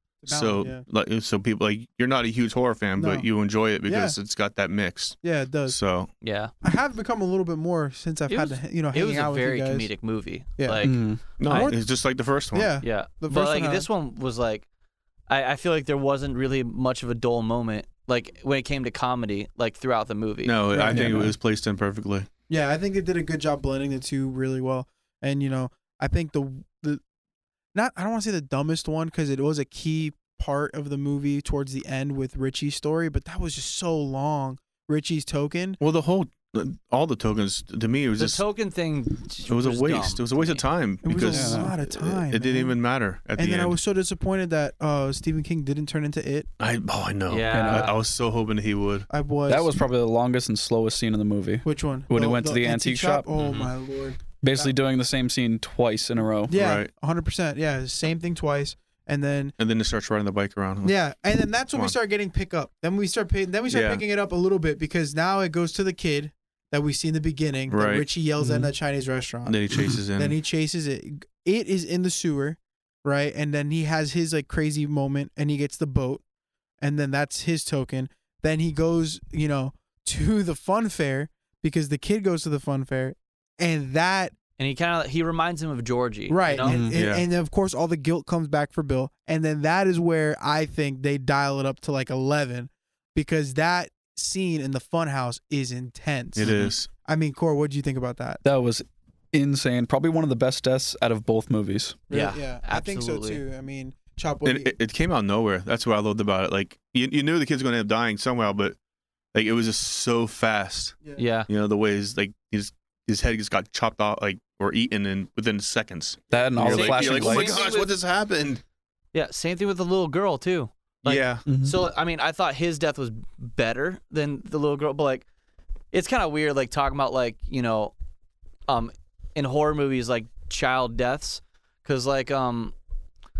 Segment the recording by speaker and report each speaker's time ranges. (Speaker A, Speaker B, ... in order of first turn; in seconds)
Speaker A: 0.2-0.8, 3.0-3.3, 3.8-4.2, 5.2-5.8, 6.6-9.9, 10.6-11.8, 12.5-13.9, 20.7-21.3, 22.5-27.0, 27.7-35.8, 41.0-42.8, 43.4-46.5, 49.1-49.7, 51.6-54.7, 56.5-59.5, 60.8-69.6, 70.2-76.2, 76.8-84.3, 86.3-98.4, 102.1-104.7
Speaker B: 0.3-6.1, 11.4-12.7, 20.4-22.3, 35.8-38.4, 39.5-43.8, 46.6-49.1, 53.4-53.7, 56.5-56.9, 59.6-60.9, 63.7-64.0, 67.7-68.0, 69.4-70.3, 86.9-87.2, 96.3-96.9, 104.4-108.8, 109.3-118.6, 121.0-121.4
Speaker C: 6.2-6.5, 8.3-11.7, 12.8-14.7, 15.3-20.6, 38.2-40.6, 47.3-47.9, 84.6-86.8, 102.1-103.4, 111.2-111.5, 116.7-117.9, 119.1-125.2, 125.9-127.9, 128.7-132.7
Speaker D: 10.8-11.7, 20.9-21.3, 41.3-41.7, 47.5-47.9, 49.5-53.3, 54.4-56.5, 68.4-68.7, 69.7-70.0, 86.6-87.0, 98.4-102.0, 116.3-117.6, 121.5-121.8